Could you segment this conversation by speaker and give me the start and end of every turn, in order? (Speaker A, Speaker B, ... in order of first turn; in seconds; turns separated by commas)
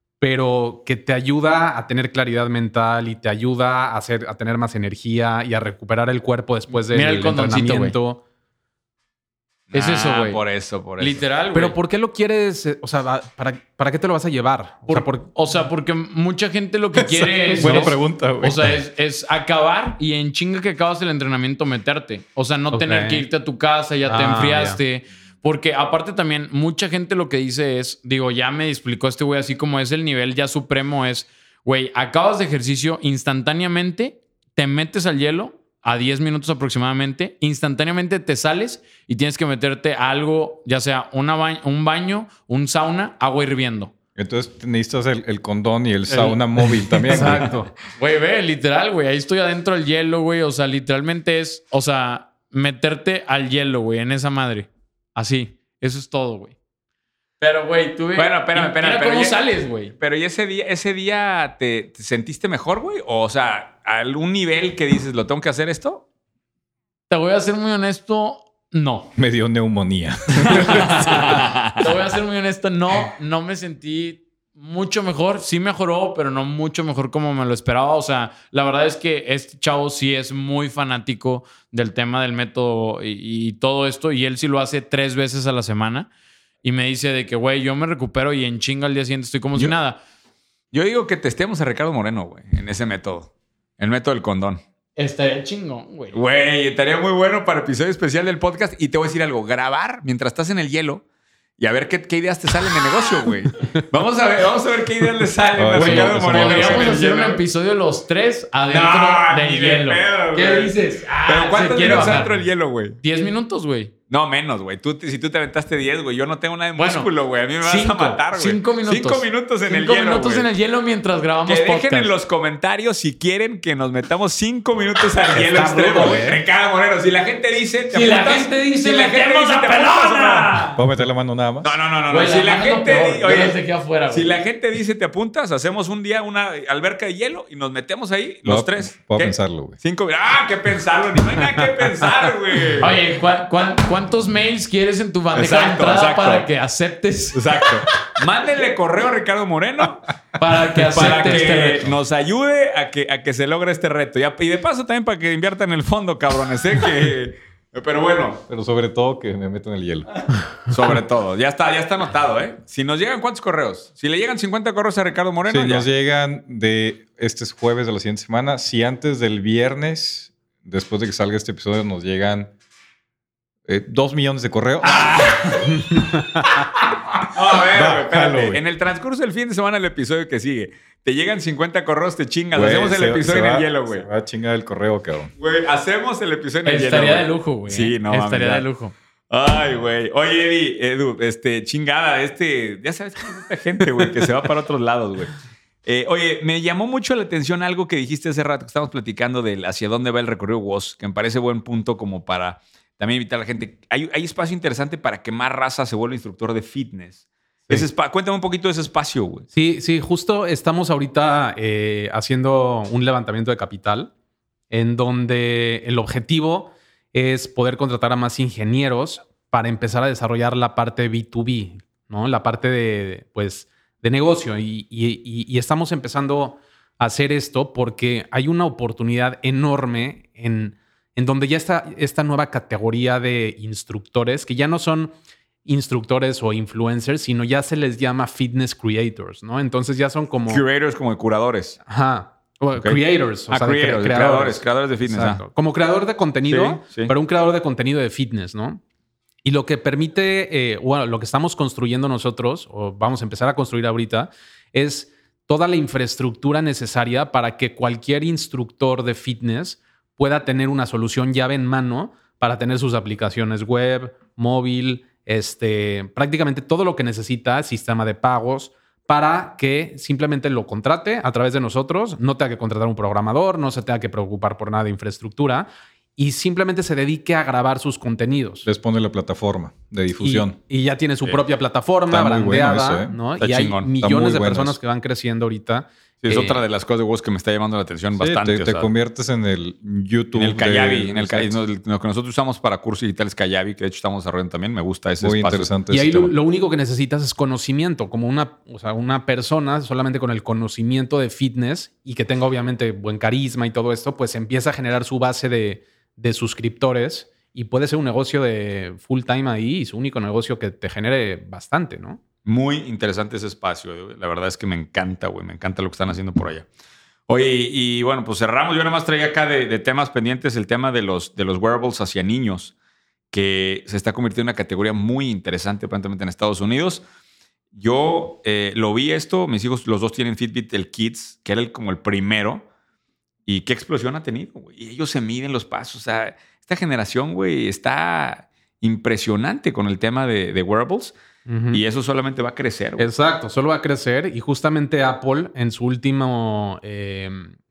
Speaker A: 0.2-8.2, Speaker B: 6.9-8.0, Speaker C: 9.7-11.2, Speaker B: 9.7-10.4, Speaker B: 11.0-11.8, Speaker A: 11.5-15.3, Speaker B: 14.9-43.9, Speaker A: 17.0-17.9, Speaker D: 17.6-18.8, Speaker A: 22.7-23.2, Speaker A: 24.1-24.8, Speaker D: 44.2-47.5, Speaker A: 47.1-47.7, Speaker B: 48.0-56.5, Speaker B: 57.4-60.0, Speaker C: 58.2-59.4, Speaker C: 59.9-66.0, Speaker B: 67.1-69.1, Speaker D: 69.2-71.3, Speaker C: 70.6-71.8, Speaker B: 71.8-86.1, Speaker B: 86.6-90.0, Speaker C: 90.7-94.6, Speaker B: 95.0-96.2, Speaker C: 96.1-101.0, Speaker C: 101.6-107.4, Speaker D: 105.6-107.0, Speaker B: 105.8-112.3, Speaker C: 108.7-110.7, Speaker C: 111.3-113.0, Speaker B: 113.0-113.9, Speaker C: 114.1-120.5, Speaker B: 116.8-117.1, Speaker B: 117.6-122.1, Speaker C: 121.5-130.8, Speaker A: 125.3-126.4, Speaker B: 127.9-130.7, Speaker D: 130.8-131.7, Speaker C: 131.6-143.0, Speaker B: 132.1-134.3, Speaker D: 138.4-139.8, Speaker B: 142.8-147.4, Speaker C: 145.3-146.5, Speaker C: 147.3-150.1, Speaker B: 150.4-151.9, Speaker C: 150.8-158.4, Speaker D: 158.5-160.2, Speaker C: 160.7-165.8, Speaker D: 165.5-172.5, Speaker D: 173.7-175.0, Speaker C: 174.8-175.6, Speaker A: 175.7-176.6, Speaker C: 177.3-184.1, Speaker D: 177.6-178.6, Speaker D: 182.5-185.3, Speaker C: 185.4-188.6, Speaker B: 186.6-188.9, Speaker C: 189.3-195.3, Speaker C: 195.8-209.5, Speaker A: 209.5-214.1, Speaker A: 214.7-235.1, Speaker A: 235.7-240.6, Speaker C: 240.5-241.8, Speaker A: 241.9-248.8, Speaker C: 242.8-245.4, Speaker C: 246.4-247.1, Speaker A: 249.4-278.7, Speaker D: 278.6-280.6, Speaker A: 280.2-286.6, Speaker D: 282.1-283.2, Speaker C: 283.4-283.9, Speaker D: 284.0-284.8, Speaker C: 286.2-288.9, Speaker D: 288.2-291.6, Speaker C: 290.4-295.7, Speaker D: 295.2-296.3, Speaker A: 295.9-312.2, Speaker C: 312.5-316.7, Speaker C: 317.3-322.7, Speaker C: 323.3-327.0, Speaker C: 327.8-332.7, Speaker C: 333.5-341.1, Speaker A: 341.5-341.8, Speaker C: 341.7-343.1, Speaker A: 343.0-347.6